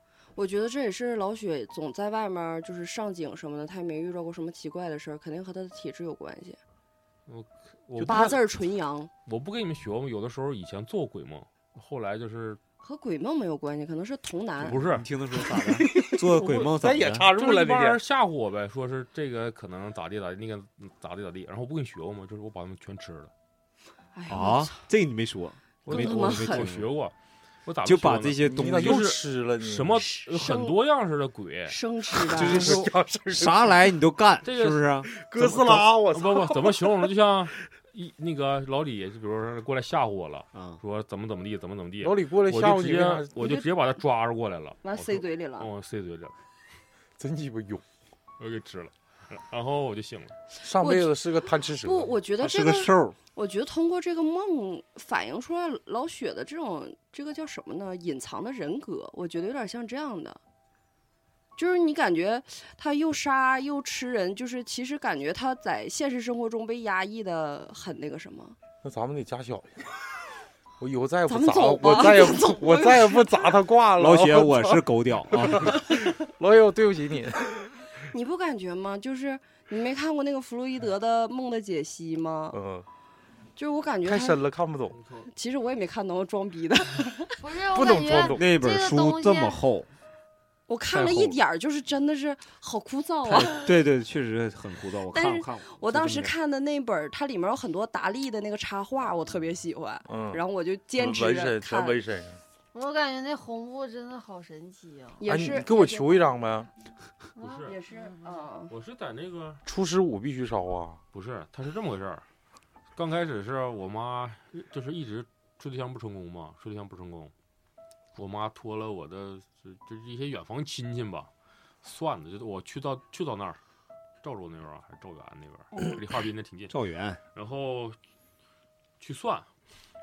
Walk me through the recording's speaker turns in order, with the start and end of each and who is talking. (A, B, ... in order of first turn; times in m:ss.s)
0:00.4-0:06.6 A
0:07.3-0:08.4 B
0:08.0-0:08.4 C
0:08.0-0:09.1 A
0:09.3-0:12.6 B
0:12.8-0:14.8 A
0:14.6-0:15.1 B
0:14.7-0:17.3 D
0:15.4-0:18.0 C
0:16.4-0:16.7 B
0:17.3-0:23.3 B
0:24.1-0:24.8 A
0:24.3-0:26.9 D
0:25.8-0:31.8 B
0:25.9-0:26.7 A
0:27.8-0:29.1 D
0:28.4-0:30.0 C
0:30.1-0:30.8 A
0:31.7-0:32.8 A
0:32.2-0:33.8 C
0:32.3-0:35.8 D
0:34.4-0:34.9 B
0:35.1-0:37.0 C
0:35.4-0:46.4 B
0:40.5-0:40.8 D
0:42.0-0:43.4 C
0:43.4-0:43.6 A
0:44.8-0:45.7 A
0:47.2-0:47.8 C
0:48.4-0:50.4 B
0:50.6-0:52.1 C
0:50.8-0:51.2 A
0:51.7-1:00.4 A
0:52.4-0:53.2 D
1:01.6-1:08.6 A
1:08.8-1:09.8 C
1:10.8-1:14.8 C
1:11.3-1:13.6 A
1:14.0-1:15.8 D
1:15.3-1:17.6 C
1:18.1-1:22.6 A
1:22.5-1:22.9 C
1:23.6-1:24.4 A
1:24.0-1:25.0 C
1:24.9-1:25.3 B
1:25.2-1:27.4 A
1:27.4-1:29.6 E
1:27.7-1:28.5 C
1:28.3-1:29.9 D
1:30.7-1:33.7 A
1:30.9-1:31.4 D
1:33.2-1:36.3 D
1:35.1-1:42.0 A
1:40.1-1:40.4 C
1:41.0-1:42.4 C
1:42.7-1:45.2 E
1:45.2-1:46.4 A
1:45.3-1:46.7 C
1:47.4-1:48.5 E
1:47.4-1:47.8 B
1:47.7-1:48.7 A
1:48.7-1:49.6 B
1:49.7-1:51.0 C
1:51.1-1:52.2 B
1:53.0-1:57.3 B
1:58.2-2:01.3 B
2:01.8-2:03.6 B
2:04.2-2:06.7 B
2:06.7-2:07.2 D
2:07.4-2:08.0 B
2:09.0-2:09.5 B